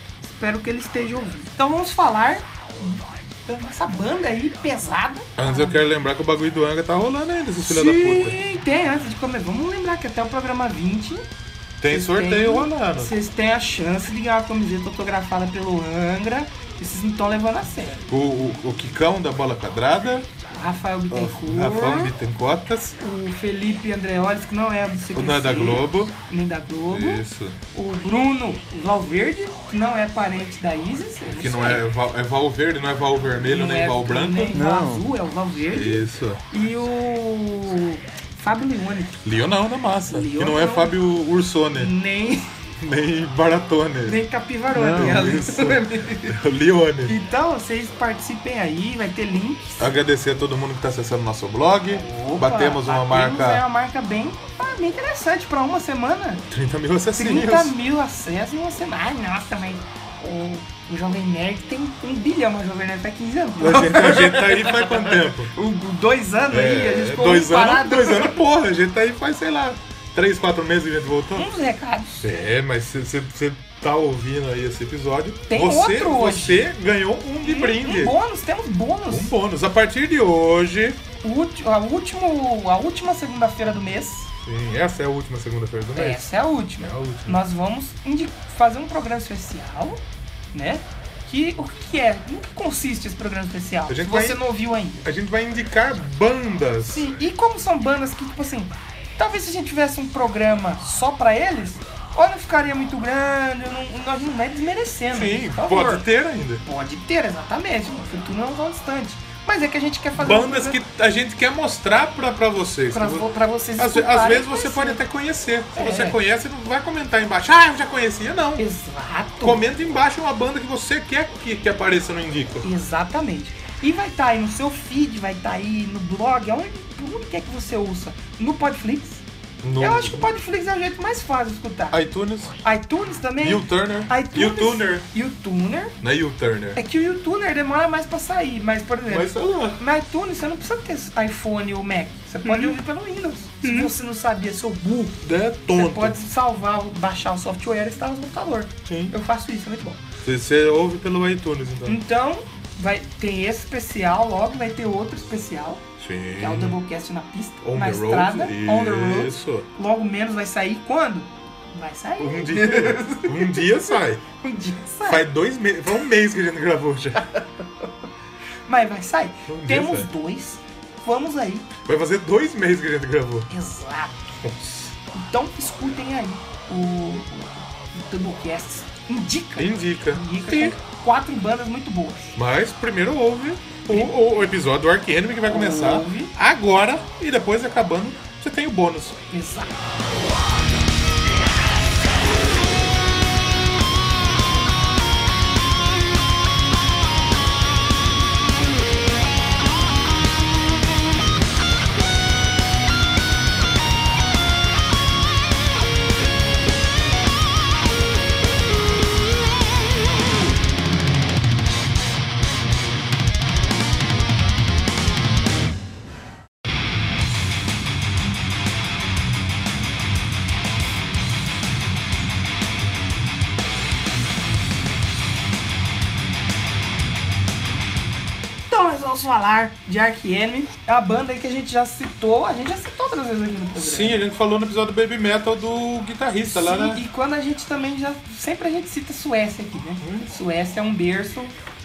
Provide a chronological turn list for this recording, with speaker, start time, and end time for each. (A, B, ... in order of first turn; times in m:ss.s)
0:00.2-0:05.9 A
0:05.4-0:08.4 B
0:07.6-0:11.3 A
0:11.8-0:13.1 B
0:11.9-0:18.1 A
0:18.1-0:20.3 B
0:20.5-0:22.2 A
0:21.1-0:23.0 B
0:23.0-0:31.8 A
0:25.1-0:26.2 B
0:26.9-0:27.6 B
0:31.3-0:34.7 B
0:33.4-0:39.2 A
0:35.7-0:36.4 B
0:39.2-0:41.9 B
0:40.1-0:41.0 A
0:41.7-0:42.4 A
0:42.8-0:44.2 B
0:44.0-0:46.4 A
0:44.7-0:47.2 B
0:47.1-0:49.9 A
0:49.8-0:53.6 B
0:51.9-0:56.4 A
0:56.5-0:57.7 B
0:57.2-1:08.4 A
1:03.6-1:05.5 B
1:06.5-1:11.5 B
1:11.4-1:12.2 A
1:12.2-1:18.2 B
1:15.5-1:16.7 A
1:17.4-1:19.3 A
1:19.1-1:21.0 B
1:21.2-1:24.3 A
1:24.4-1:26.3 B
1:25.9-1:35.1 A
1:26.8-1:27.4 B
1:33.9-1:34.4 B
1:35.0-1:37.1 B
1:36.9-1:46.0 A
1:45.1-1:46.6 B
1:46.6-1:50.8 A
1:50.2-1:58.6 B
1:52.9-1:55.0 A
1:55.7-1:56.2 A
1:58.6-1:59.6 A
1:59.4-2:02.7 B
2:02.6-2:09.2 A
2:09.6-2:10.3 B
2:09.8-2:12.0 A
2:11.9-2:12.6 B
2:12.6-2:16.0 A
2:13.4-2:15.1 B
2:16.0-2:16.8 B
2:16.8-2:25.2 A
2:19.1-2:19.8 B
2:22.4-2:22.8 B
2:23.6-2:23.9 B
2:25.2-2:26.2 B
2:25.7-2:30.0 A
2:28.9-2:29.2 B
2:30.2-2:32.0 B
2:31.9-2:35.8 A
2:36.0-2:36.8 B
2:36.4-2:45.3 A
2:37.6-2:39.7 B
2:42.2-2:44.2 B
2:45.1-2:47.3 B
2:48.7-2:51.8 A
2:49.5-2:50.1 B
2:51.9-2:53.5 B
2:53.5-2:54.3 A
2:54.4-2:54.9 B
2:55.1-3:02.4 A
2:59.6-3:00.8 B
3:02.4-3:09.2 B
3:03.9-3:04.2 A
3:05.5-3:06.3 A
3:09.3-3:09.8 A
3:48.7-3:54.3 A
3:53.8-3:57.0 B
3:56.5-4:01.6 A
4:00.0-4:00.3 B